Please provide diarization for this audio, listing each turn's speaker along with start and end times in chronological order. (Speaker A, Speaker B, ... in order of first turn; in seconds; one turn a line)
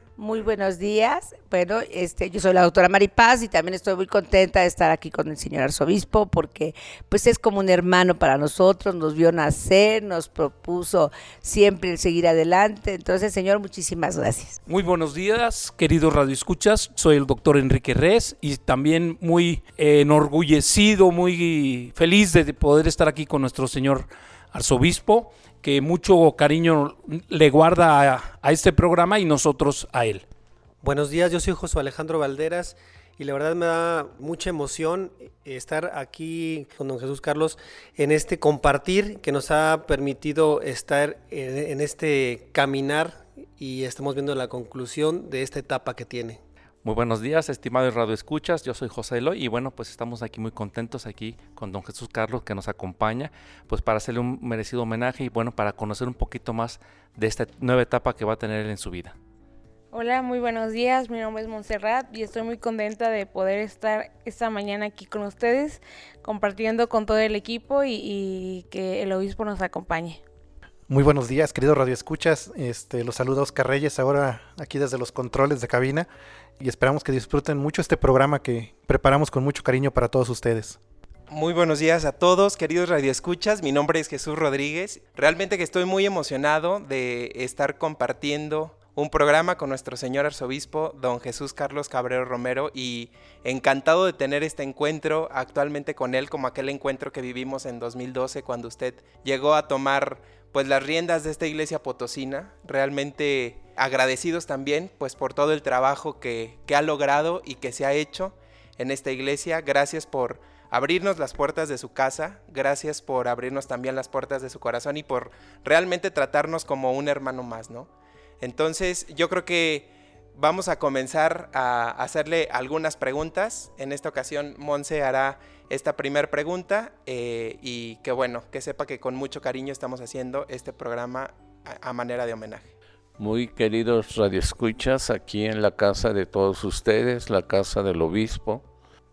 Speaker A: 0.2-14.6
Speaker B: 14.7-30.2
Speaker C: 30.8-46.4
Speaker D: 46.8-59.2
Speaker E: 59.9-70.2
Speaker F: 70.9-80.8
Speaker G: 81.3-132.7
Speaker H: 133.2-138.7